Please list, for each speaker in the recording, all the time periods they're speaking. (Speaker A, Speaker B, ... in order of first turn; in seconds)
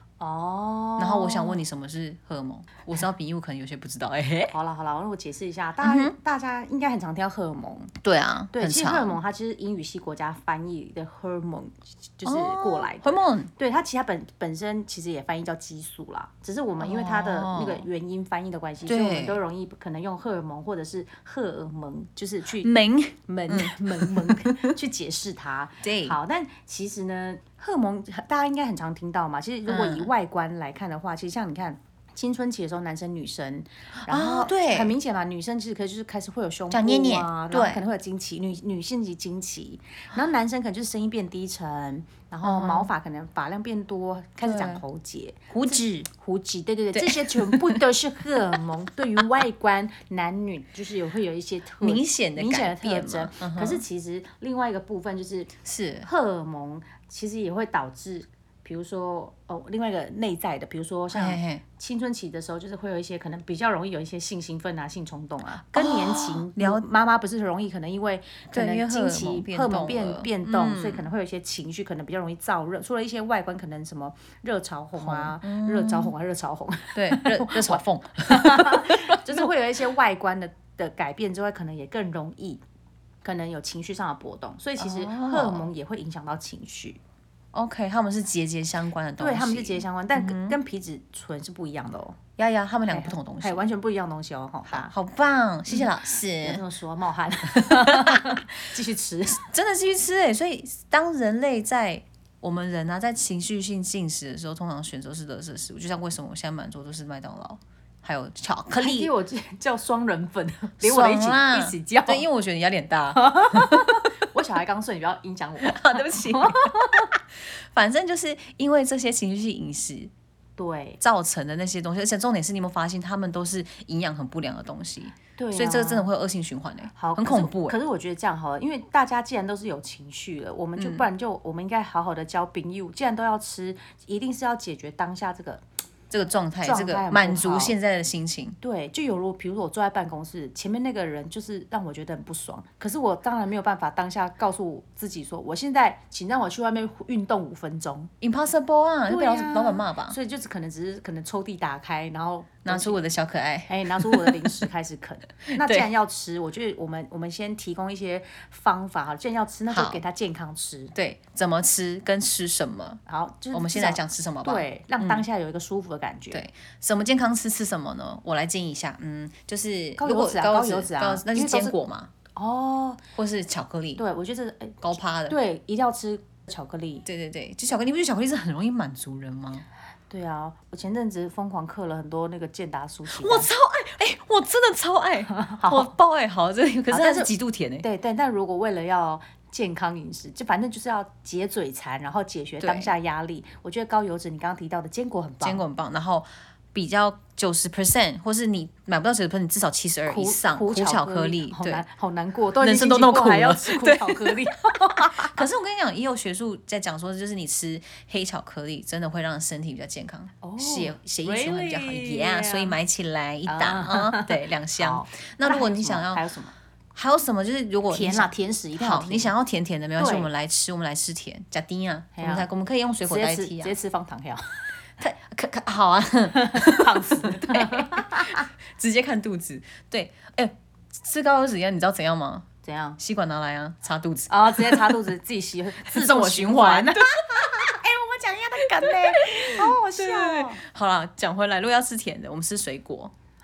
Speaker A: 0.2-1.6, 4.5-7.9, 8.5-22.7, 23.3-55.5, 56.0-82.6, 83.2-87.0, 89.2-92.2, 92.9-94.9, 95.7-99.4, 108.7-112.2, 113.2-117.1, 120.6-121.0, 125.4-126.1, 127.0-135.6, 136.6-137.8, 138.6-148.1, 149.1-153.0, 153.7-160.9, 163.1-166.5, 170.0-171.8, 172.3-173.0, 174.0-177.1, 180.1-183.5, 185.3-185.9, 186.9-195.6, 200.1-205.4, 210.4-212.8, 213.5-216.5, 217.9-219.3, 220.0-220.3, 222.2-222.5, 223.1-224.7, 226.3-228.5, 232.6-233.0, 234.3-240.6
Speaker B: 1.0-4.5, 5.8-6.2, 8.0-9.2, 12.2-13.5, 16.8-17.9, 18.8-19.4, 22.6-24.7, 25.8-26.2, 29.7-30.1, 34.0-34.9, 36.7-37.8, 42.4-42.9, 44.4-44.8, 45.5-45.9, 46.9-47.8, 51.8-53.8, 55.6-56.1, 61.1-61.6, 65.7-66.8, 68.5-71.1, 75.0-76.1, 77.0-79.5, 84.8-85.7, 87.5-90.6, 92.4-93.7, 94.7-96.6, 97.6-98.3, 99.4-109.1, 110.8-113.8, 115.6-116.7, 117.7-120.1, 121.0-127.8, 130.8-131.1, 136.1-138.6, 148.2-150.2, 152.7-154.7, 155.5-155.9, 159.7-160.0, 160.9-163.0, 163.5-165.2, 166.3-172.1, 173.2-174.0, 174.8-175.4, 177.1-179.7, 183.1-187.9, 192.6-192.9, 195.4-201.8, 202.6-204.4, 205.1-216.2, 216.9-223.8, 225.0-232.5, 233.0-235.0, 235.9-237.1, 238.8-243.1